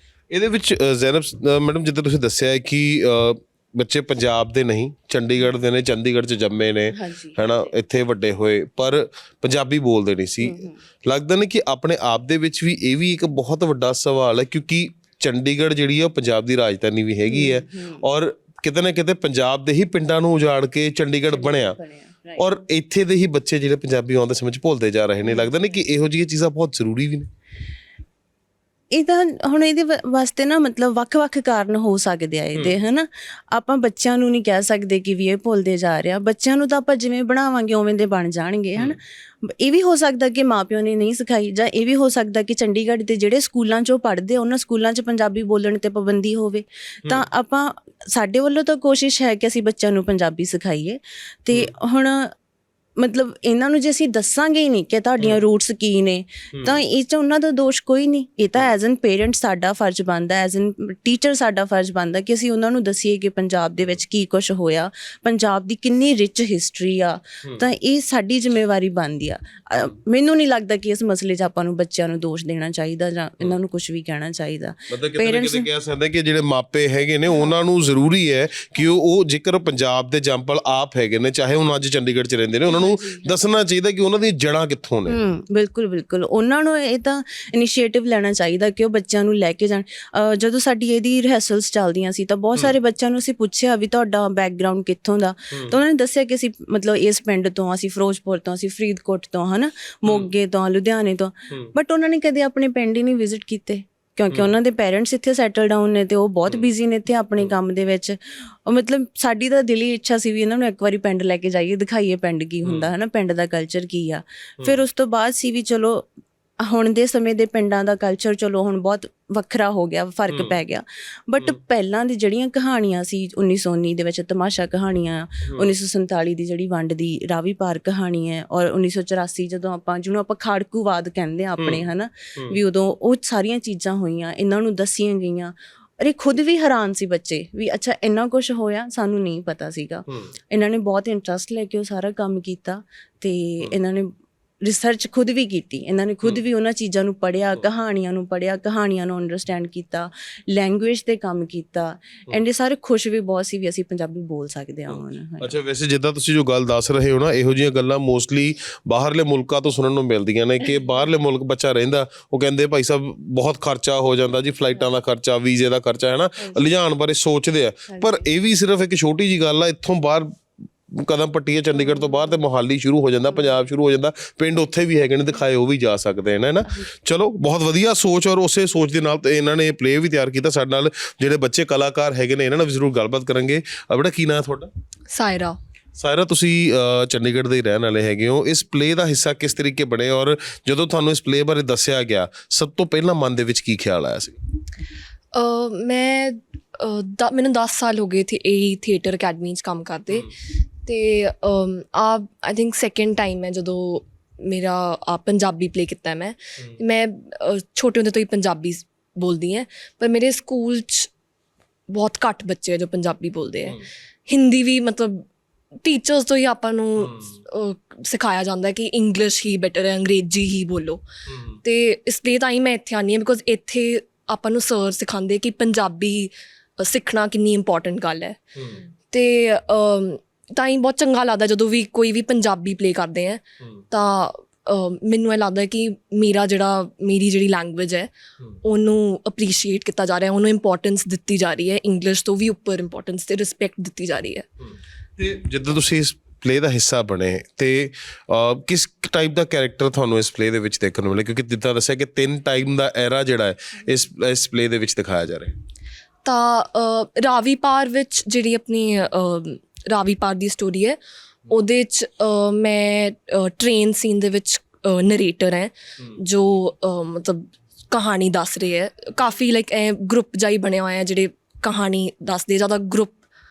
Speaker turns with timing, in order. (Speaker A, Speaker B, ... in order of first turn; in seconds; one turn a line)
Speaker A: 0.3-21.8
Speaker B: 7.0-7.4
Speaker B: 10.4-10.8
Speaker B: 17.3-18.1
Speaker B: 21.3-22.4
Speaker A: 22.4-27.3
Speaker B: 28.9-52.3
Speaker B: 53.0-75.7
Speaker A: 56.5-56.8
Speaker A: 74.9-85.2
Speaker C: 82.7-83.3
Speaker B: 85.1-116.1
Speaker A: 95.5-95.8
Speaker A: 100.1-100.3
Speaker A: 112.6-112.9
Speaker B: 116.7-155.5
Speaker A: 120.3-120.6
Speaker A: 125.5-125.7
Speaker A: 131.6-131.8
Speaker A: 132.3-132.6
Speaker A: 154.9-170.4
Speaker A: 170.9-184.7
Speaker C: 185.1-185.6
Speaker A: 186.0-194.4
Speaker C: 195.3-200.3
Speaker C: 200.8-211.1
Speaker C: 211.9-215.3
Speaker C: 215.8-221.0
Speaker A: 217.0-217.4
Speaker A: 221.3-221.6
Speaker C: 221.6-228.4
Speaker A: 228.6-228.8
Speaker C: 229.1-238.1
Speaker C: 238.6-244.5
Speaker A: 245.2-255.6
Speaker C: 256.2-273.2